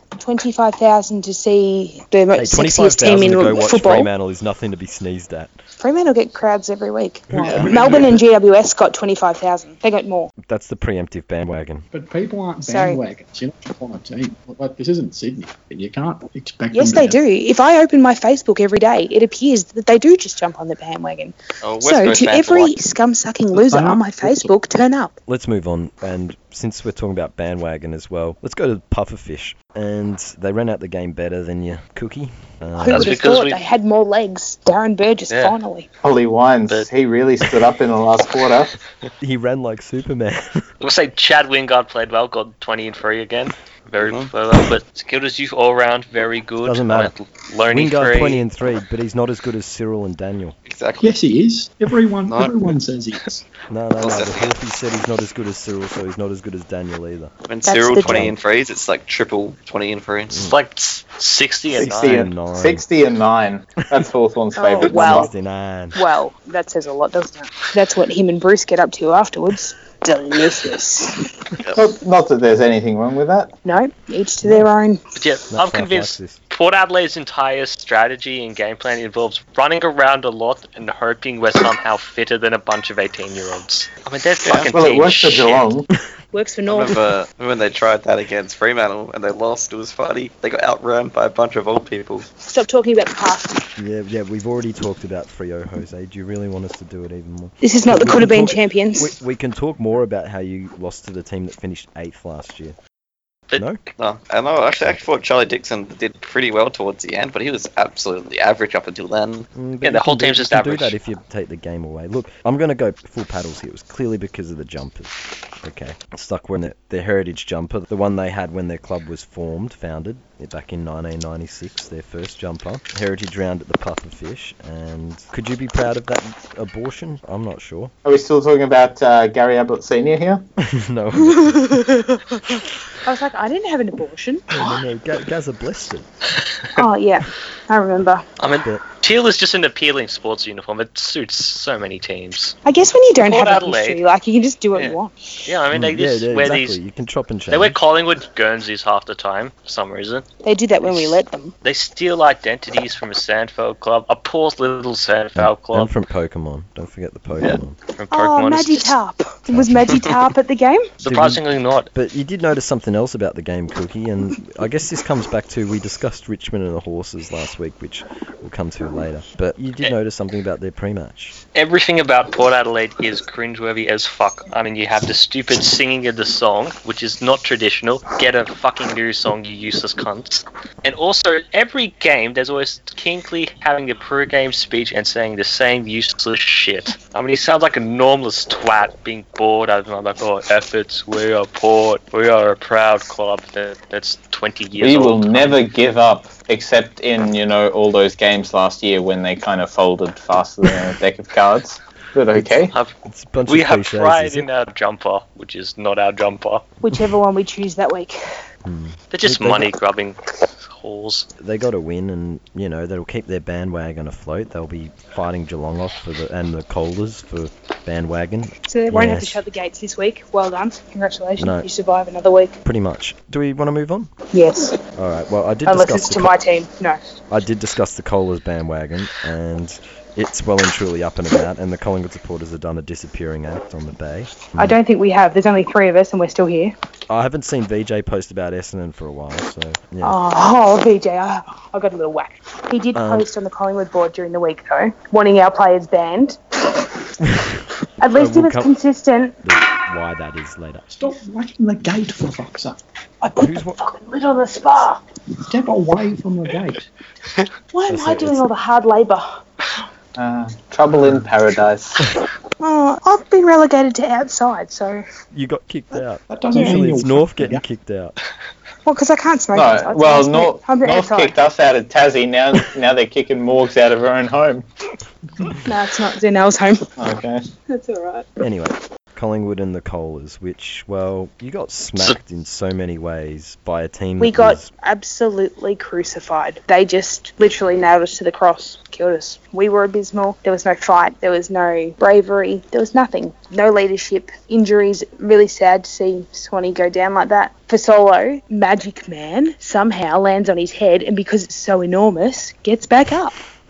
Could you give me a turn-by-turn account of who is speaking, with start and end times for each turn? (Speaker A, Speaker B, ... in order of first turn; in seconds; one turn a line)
Speaker A: 0.2-4.1
Speaker B: 2.3-5.5
Speaker A: 5.8-10.3
Speaker B: 7.3-7.7
Speaker C: 7.3-8.2
Speaker D: 7.4-7.7
Speaker B: 10.5-11.9
Speaker C: 11.9-17.2
Speaker A: 12.6-13.0
Speaker A: 16.7-25.1
Speaker D: 21.6-22.7
Speaker C: 23.5-24.5
Speaker B: 25.3-33.2
Speaker A: 32.8-35.9
Speaker E: 32.9-33.6
Speaker E: 35.3-35.5
Speaker F: 36.0-38.7
Speaker B: 39.2-40.6
Speaker E: 40.8-48.4
Speaker D: 44.0-44.3
Speaker B: 46.6-47.1
Speaker B: 47.7-50.5
Speaker D: 50.6-51.1
Speaker C: 51.0-53.4
Speaker D: 52.2-52.6
Speaker B: 53.7-57.3
Speaker D: 54.0-54.5
Speaker D: 57.5-60.5
Speaker A: 57.6-58.3
Speaker B: 58.0-58.4
Speaker B: 60.3-60.5
Speaker E: 60.4-62.2
Speaker F: 61.7-65.3
Speaker B: 61.8-62.8
Speaker A: 64.5-65.3
Speaker B: 64.8-66.0
Speaker A: 65.9-71.2
Speaker D: 71.6-71.8
Speaker F: 71.7-73.5
Speaker A: 73.6-75.0
Speaker E: 75.1-85.7
Speaker B: 75.5-76.4
Speaker D: 84.4-84.7
Speaker F: 84.7-85.9
Speaker A: 86.3-87.0
Speaker D: 86.7-92.3
Speaker A: 92.4-93.6
Speaker B: 93.8-102.8
Speaker A: 97.6-99.1
Speaker B: 103.5-103.8
Speaker D: 104.0-109.5
Speaker B: 109.5-127.9
Speaker E: 109.8-110.9
Speaker F: 128.0-130.4
Speaker B: 130.6-131.8
Speaker A: 131.2-132.2
Speaker A: 133.0-134.7
Speaker B: 134.5-136.1
Speaker A: 136.8-138.2
Speaker E: 138.4-142.6
Speaker A: 142.6-145.1
Speaker E: 143.2-144.0
Speaker E: 144.8-146.8
Speaker B: 145.7-147.8
Speaker E: 147.5-150.2
Speaker A: 150.4-151.5
Speaker E: 150.8-155.9
Speaker B: 155.3-157.7
Speaker E: 158.0-158.9
Speaker A: 158.1-160.8
Speaker B: 159.5-159.9
Speaker E: 161.0-161.9
Speaker B: 161.0-171.3
Speaker E: 171.5-195.6
Speaker F: 194.8-202.7
Speaker B: 203.1-204.5
Speaker E: 203.5-206.6
Speaker A: 206.8-208.2
Speaker B: 208.6-209.7
Speaker E: 209.1-211.2
Speaker B: 211.4-219.4
Speaker A: 218.7-222.6
Speaker B: 221.4-221.7
Speaker B: 222.6-224.1
Speaker A: 224.3-224.8
Speaker B: 224.9-226.3
Speaker A: 225.7-227.0
Speaker B: 227.3-234.8
Speaker A: 234.6-236.7
Speaker B: 237.1-240.2
Speaker A: 240.0-246.8
Speaker B: 242.9-243.3
Speaker B: 247.2-248.7
Speaker A: 248.0-249.4
Speaker B: 249.4-250.9
Speaker C: 250.9-252.8
Speaker A: 253.2-255.0
Speaker B: 253.4-253.8
Speaker C: 255.5-256.9
Speaker A: 257.7-259.4
Speaker B: 257.9-258.5
Speaker F: 260.2-262.1
Speaker A: 262.6-265.0
Speaker B: 265.3-268.1
Speaker C: 266.3-267.6
Speaker A: 268.9-271.4
Speaker F: 269.5-274.6
Speaker A: 275.6-276.9
Speaker F: 277.0-277.4
Speaker A: 277.7-278.3
Speaker B: 278.4-284.7
Speaker A: 284.2-303.4